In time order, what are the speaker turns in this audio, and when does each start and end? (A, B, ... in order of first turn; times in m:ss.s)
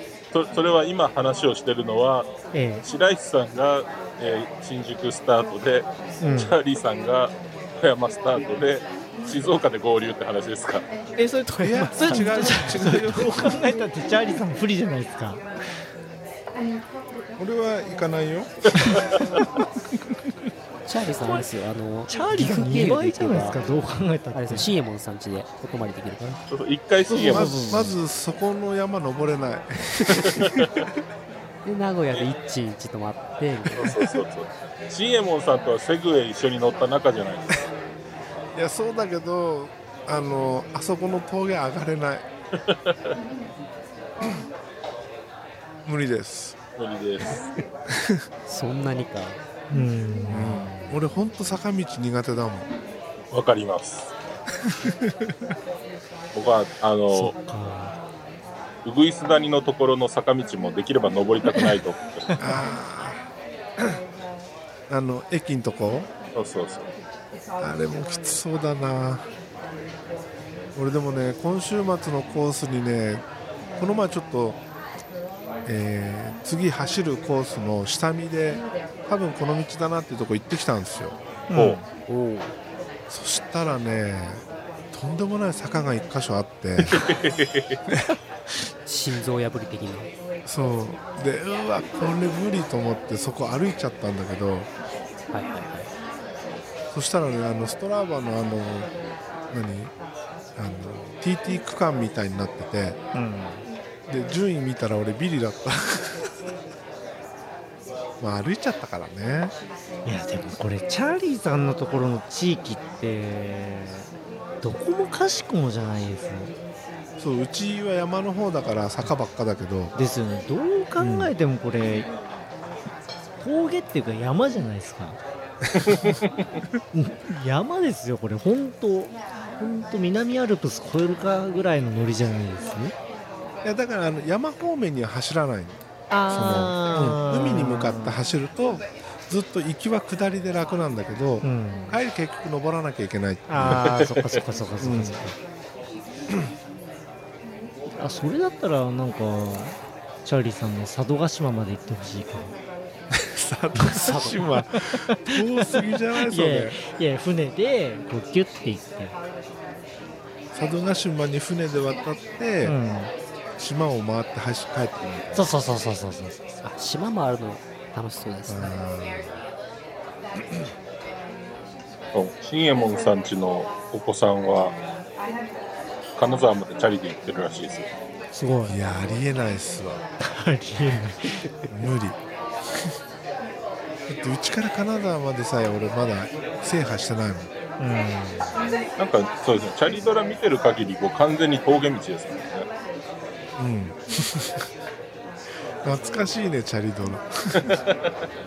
0:00.3-0:02.3 A
0:02.5-0:02.8 B
0:02.8-0:10.8 A
0:06.2-0:06.6 B
0:11.2-0:15.4 B
0:11.6-0:13.6 C
0:12.0-0:12.9 D
0:17.4-0:19.4 C
0:20.8-0:23.6 D
0:22.1-0:24.7 B
0:24.3-0:26.4 D
0:26.5-0:27.7 A
0:27.1-0:28.0 B
0:27.3-0:30.7 C
0:30.2-0:30.8 A
0:31.6-0:33.9 D
0:33.8-0:37.5 A
0:38.5-0:42.2 C
0:42.6-0:43.1 A
0:45.8-0:46.6 C
0:46.8-0:47.4 A
0:48.4-0:49.4 D
0:49.7-0:51.1 B
0:50.3-0:52.7 C
0:53.3-0:54.1 A
0:54.7-0:55.3 C
0:56.3-0:57.3 A
0:57.1-0:57.9 B
0:58.8-1:02.4 A
1:02.4-1:03.2 C
1:04.9-1:06.1 C
1:06.3-1:06.8 A
1:07.6-1:09.3 C
1:10.7-1:13.2 C
1:13.8-1:14.6 C
1:15.6-1:21.2 C
1:21.5-1:21.8 B
1:21.5-1:22.5 A
1:23.1-1:27.0 C
1:26.8-1:27.8 A
1:28.8-1:30.1 D
1:30.4-1:34.7 C
1:35.3-1:35.9 D
1:36.9-1:38.9 C
1:39.5-1:39.9 C
1:40.6-1:43.0 C
1:43.1-1:43.6 B
1:44.1-1:46.3 C
1:48.2-1:49.5 C
1:50.0-1:54.0 B
1:54.6-1:56.5 B
1:57.2-1:59.9 C
1:59.9-2:02.1 B
2:01.0-2:01.3 C
2:03.4-2:05.2 B
2:05.7-2:06.1 C
2:05.8-2:06.5 A
2:06.9-2:12.9 B
2:13.6-2:23.9 C
2:16.1-2:18.2 B
2:21.4-2:22.0 B
2:23.5-2:25.4 B
2:24.8-2:25.2 C
2:27.9-2:32.6 B
2:33.3-2:36.8 C
2:33.7-2:35.0 B
2:35.7-2:39.1 B
2:40.5-2:42.7 C
2:42.6-2:43.1 B
2:43.6-2:45.5 C
2:45.3-2:46.5 B
2:46.6-2:48.7 D
2:48.5-2:49.3 C
2:52.1-2:54.7 A
2:56.2-2:57.9 A
2:58.3-2:58.8 B
2:58.7-3:00.0 C
3:00.3-3:01.3 B
3:01.7-3:02.2 C
3:04.1-3:07.5 C
3:07.8-3:08.5 B
3:09.0-3:12.7 A
3:13.6-3:14.6 C
3:15.8-3:17.8 C
3:17.6-3:18.0 A